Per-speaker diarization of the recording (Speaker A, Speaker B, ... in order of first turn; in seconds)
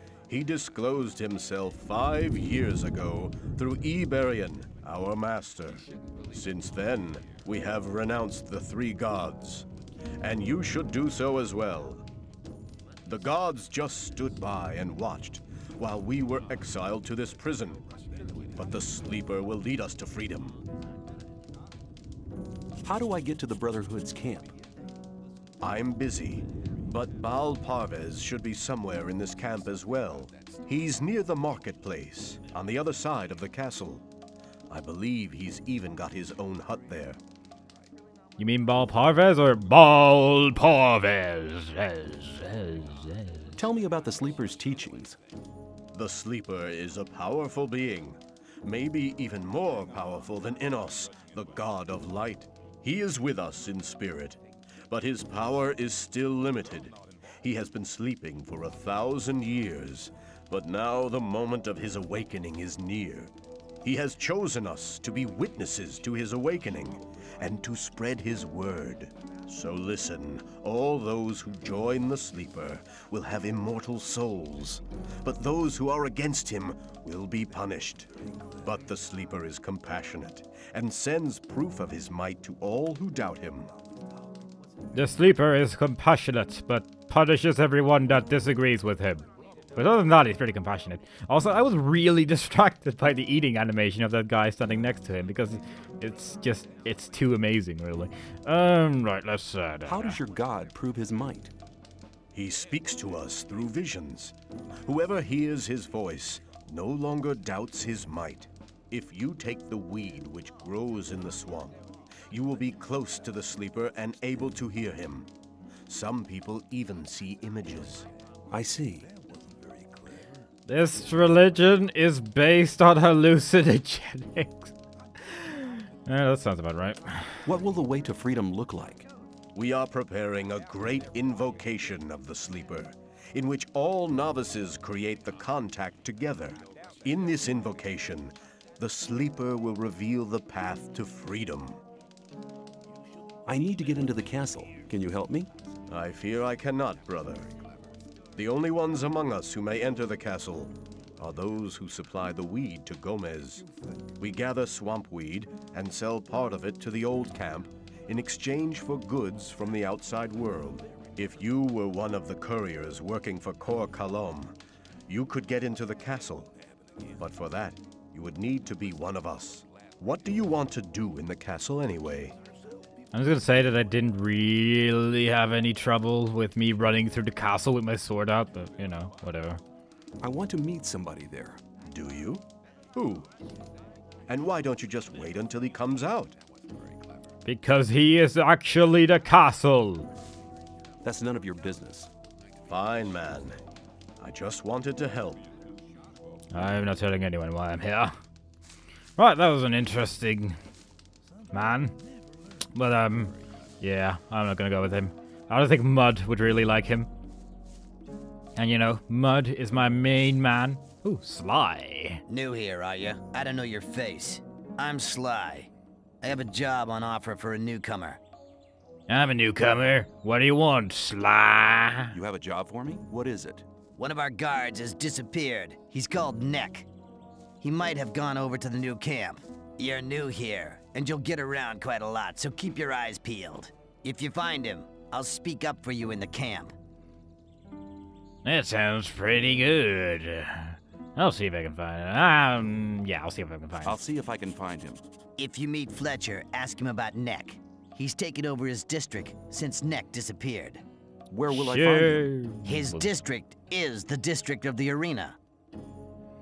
Speaker A: 0.3-9.7, 10.2-12.0, 13.1-17.8, 18.6-20.6, 25.6-34.0, 34.7-37.2, 45.9-54.4, 54.9-63.3, 63.8-83.7, 102.3-104.3, 104.9-111.8, 112.3-115.3, 115.9-118.1, 129.6-141.8, 145.9-147.5, 148.3-153.6, 154.2-164.5, 165.1-166.5, 167.2-172.3, 181.8-182.4, 182.9-183.3, 184.3-186.3, 192.7-193.6, 194.2-195.4
Speaker B: 22.8-24.5, 43.6-45.2, 99.8-101.5, 118.5-119.1, 127.5-129.1, 143.4-145.5, 180.2-181.6, 191.0-192.1, 222.1-223.6, 243.8-245.0, 251.3-252.3
Speaker C: 38.4-43.6, 84.9-89.2, 89.8-100.2, 120.7-127.4, 173.1-179.6, 187.4-190.1, 196.5-198.2, 199.2-200.6, 201.5-202.0, 202.8-207.1, 208.6-212.2, 219.1-222.1, 238.4-244.0, 251.5-253.1
Speaker D: 212.3-215.7, 216.2-218.2, 223.9-226.9, 227.6-236.7, 245.4-250.8, 252.6-255.4